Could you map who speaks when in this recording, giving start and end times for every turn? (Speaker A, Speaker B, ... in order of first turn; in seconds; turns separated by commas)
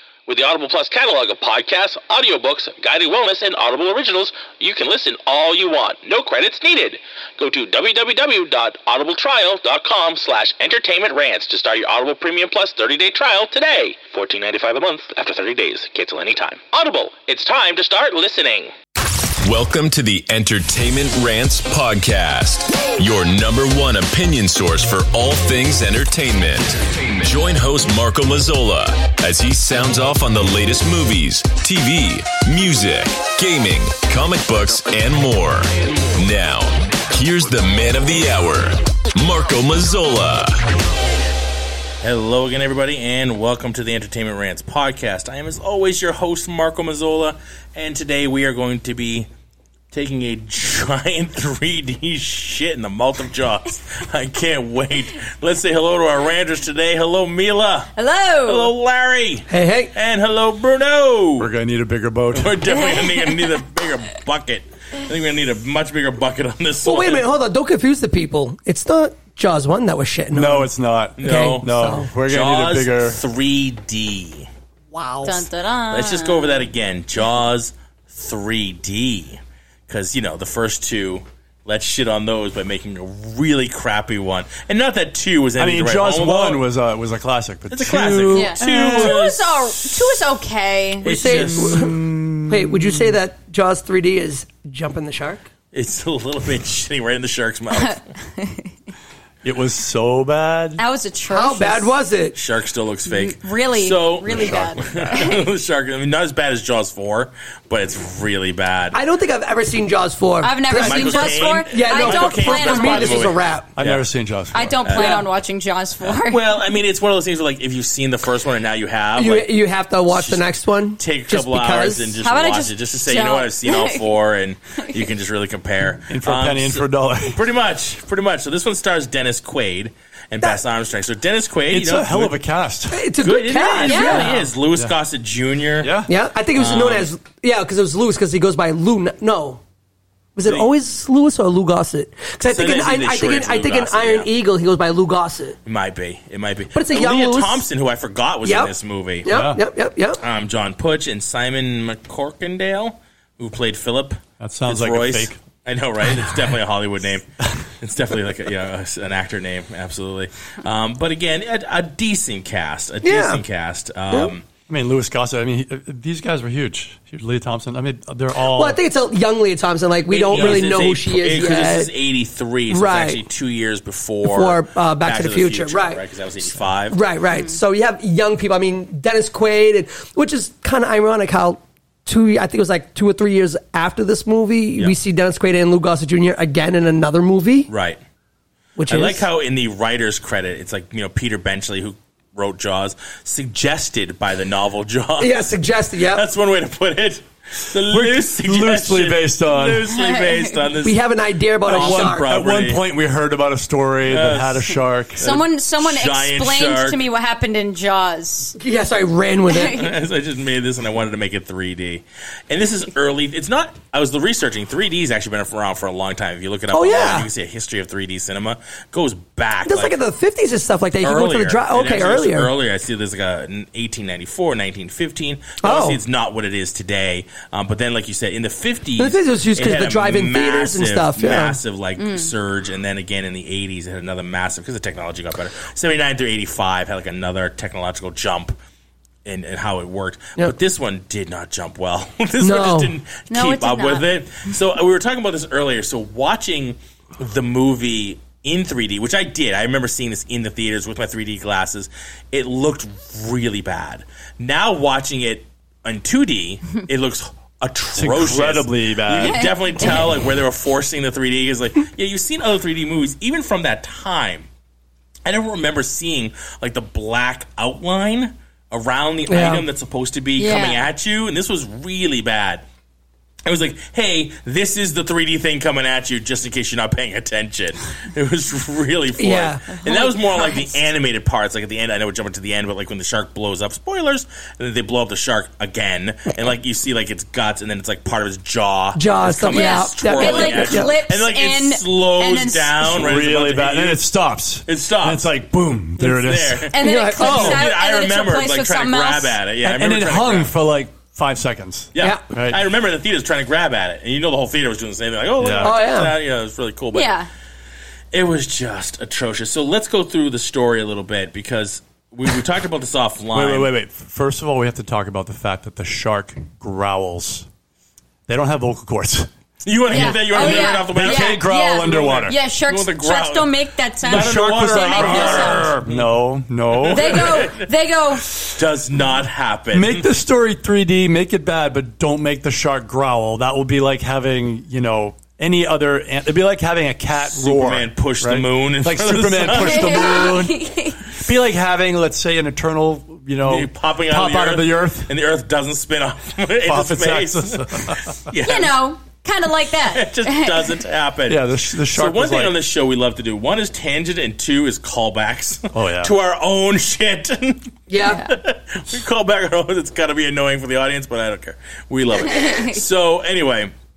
Speaker A: 0.3-18.7, Speaker B: 19.4-40.8, Speaker C: 42.0-49.3, Speaker C: 49.9-57.9, Speaker D: 58.0-58.7, Speaker C: 58.5-61.5, Speaker E: 59.5-59.9, Speaker F: 61.4-62.7, Speaker C: 62.3-67.2, Speaker D: 62.7-63.5, Speaker E: 66.8-72.1, Speaker F: 70.3-73.2, Speaker C: 71.2-74.5, Speaker E: 74.9-75.5, Speaker D: 75.2-76.7, Speaker C: 75.9-86.6, Speaker F: 85.6-89.1, Speaker C: 87.7-90.1, Speaker D: 88.3-91.1, Speaker C: 91.0-92.0, Speaker E: 91.0-95.5, Speaker F: 91.1-93.2, Speaker C: 95.7-98.0, Speaker D: 97.8-98.7, Speaker F: 99.4-100.8, Speaker D: 100.8-101.9, Speaker E: 101.3-102.4, Speaker C: 102.3-109.0, Speaker D: 103.0-105.5, Speaker F: 104.3-105.2, Speaker E: 108.9-113.7, Speaker D: 110.4-113.3, Speaker C: 110.8-114.0, Speaker F: 113.8-115.1, Speaker D: 114.5-116.4, Speaker C: 114.8-115.3, Speaker C: 116.0-119.5, Speaker E: 119.2-122.1, Speaker C: 120.1-132.3, Speaker D: 122.2-124.0, Speaker F: 126.1-127.4, Speaker F: 131.7-133.1, Speaker E: 132.9-134.4, Speaker C: 133.2-135.9, Speaker D: 133.8-134.3, Speaker F: 133.9-134.9, Speaker F: 135.8-136.1, Speaker E: 136.1-139.6, Speaker C: 136.5-137.1, Speaker E: 140.3-145.6, Speaker C: 142.5-144.3, Speaker C: 145.7-149.3, Speaker E: 146.7-147.6, Speaker E: 148.4-148.7, Speaker E: 149.2-150.2, Speaker F: 149.3-149.6, Speaker C: 150.2-157.2, Speaker F: 154.4-155.4, Speaker C: 157.8-164.4, Speaker E: 163.0-163.4, Speaker F: 164.7-168.8, Speaker E: 168.5-171.9, Speaker C: 170.1-177.0, Speaker F: 170.3-170.7, Speaker E: 172.7-173.2, Speaker E: 174.2-176.0, Speaker E: 176.9-187.7, Speaker D: 177.3-177.6, Speaker C: 187.7-188.0, Speaker E: 188.8-189.2, Speaker C: 188.9-201.0, Speaker E: 195.2-196.2, Speaker F: 197.9-199.9, Speaker D: 199.9-200.5, Speaker E: 200.8-202.3, Speaker C: 201.6-202.8, Speaker F: 201.7-205.2, Speaker C: 204.0-207.0, Speaker D: 205.2-208.6, Speaker E: 208.6-209.9, Speaker D: 209.5-209.9, Speaker C: 209.6-219.9, Speaker E: 216.7-217.3, Speaker E: 219.7-222.5, Speaker C: 221.0-238.6, Speaker E: 225.6-226.0, Speaker E: 229.0-231.6, Speaker D: 232.0-232.3, Speaker C: 239.2-264.5, Speaker E: 242.4-242.9, Speaker D: 243.3-244.0, Speaker F: 257.9-259.6, Speaker D: 259.2-260.1, Speaker C: 265.2-272.6, Speaker E: 269.3-269.6, Speaker D: 270.4-270.9, Speaker C: 273.4-294.1, Speaker E: 279.2-279.7, Speaker D: 279.7-280.7, Speaker E: 288.9-290.9, Speaker D: 289.5-292.9, Speaker F: 292.8-297.6, Speaker C: 294.6-295.3, Speaker C: 296.0-300.5, Speaker D: 296.7-299.4, Speaker E: 296.8-297.7, Speaker F: 299.6-302.6, Speaker C: 301.9-307.1, Speaker F: 305.4-305.7, Speaker E: 305.6-306.1, Speaker D: 306.9-307.3, Speaker C: 308.1-313.7, Speaker F: 313.3-317.5, Speaker F: 318.3-319.3, Speaker C: 319.6-326.1, Speaker F: 319.9-322.4, Speaker D: 319.9-325.7, Speaker F: 324.0-327.4, Speaker C: 326.7-327.7, Speaker D: 326.8-328.3, Speaker C: 328.3-330.1, Speaker F: 329.7-345.1, Speaker C: 337.3-340.3, Speaker D: 339.5-341.0, Speaker C: 343.4-348.8, Speaker F: 346.7-348.2, Speaker D: 348.4-350.7, Speaker C: 349.9-363.7, Speaker F: 351.3-352.6, Speaker F: 355.7-356.1, Speaker E: 357.9-358.2, Speaker D: 358.0-358.3, Speaker D: 362.2-362.8